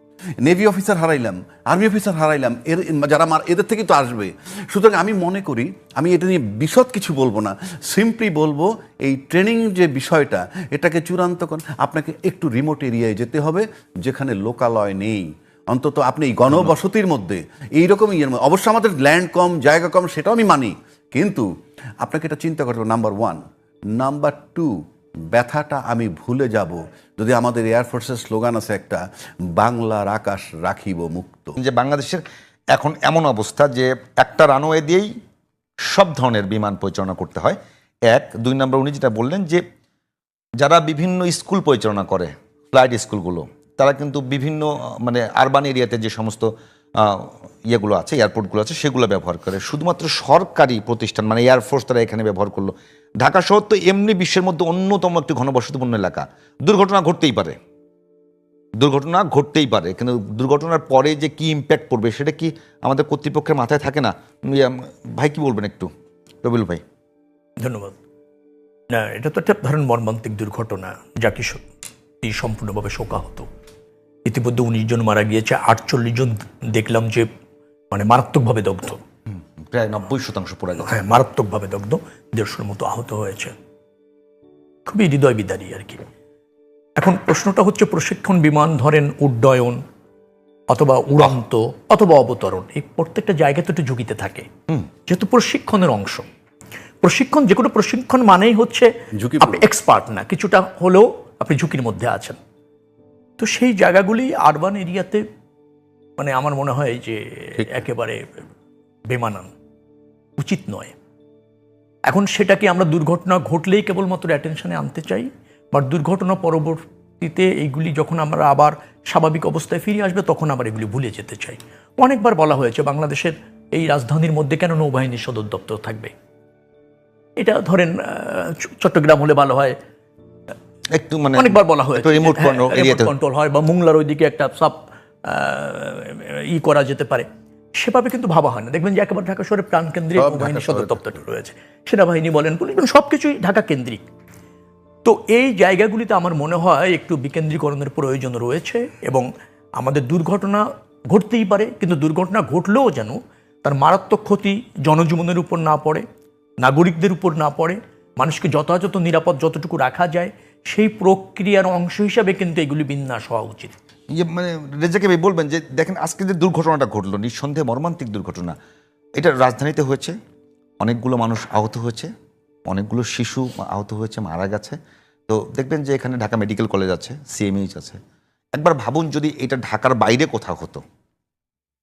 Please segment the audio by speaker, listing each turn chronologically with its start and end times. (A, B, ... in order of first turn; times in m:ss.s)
0:00.4-0:21.5 A
0:22.0-0:23.4 A
0:23.9-0:24.7 A
0:25.3-0:29.0 A
0:29.5-0:31.6 A
0:31.6-0:32.2 B
0:32.7-0:35.1 B
0:35.9-0:39.6 B
0:40.6-0:57.6 B
0:58.8-1:05.9 B
1:06.4-1:06.8 B
1:07.6-1:08.0 C
1:08.9-1:11.6 C
1:12.2-1:13.5 C
1:14.2-1:17.3 C
1:17.9-1:19.0 C
1:19.3-1:21.2 B
1:20.8-1:23.5 C
1:24.8-1:26.0 C
1:27.0-1:29.8 C
1:30.7-1:34.5 C
1:35.1-1:36.2 C
1:37.0-1:38.9 C
1:39.1-1:39.6 A
1:39.4-1:42.4 C
1:43.4-1:45.2 C
1:46.2-1:48.2 C
1:49.1-1:49.5 C
1:50.4-1:50.9 C
1:52.0-2:06.1 C
2:07.4-2:09.8 C
2:10.9-2:13.1 B
2:11.3-2:24.0 C
2:20.4-2:20.9 B
2:25.0-2:36.0 C
2:36.6-2:43.7 C
2:44.1-2:48.5 B
2:49.2-2:50.2 B
2:50.8-2:52.1 B
2:52.7-2:54.8 B
2:55.3-2:58.0 B
2:58.5-3:00.8 B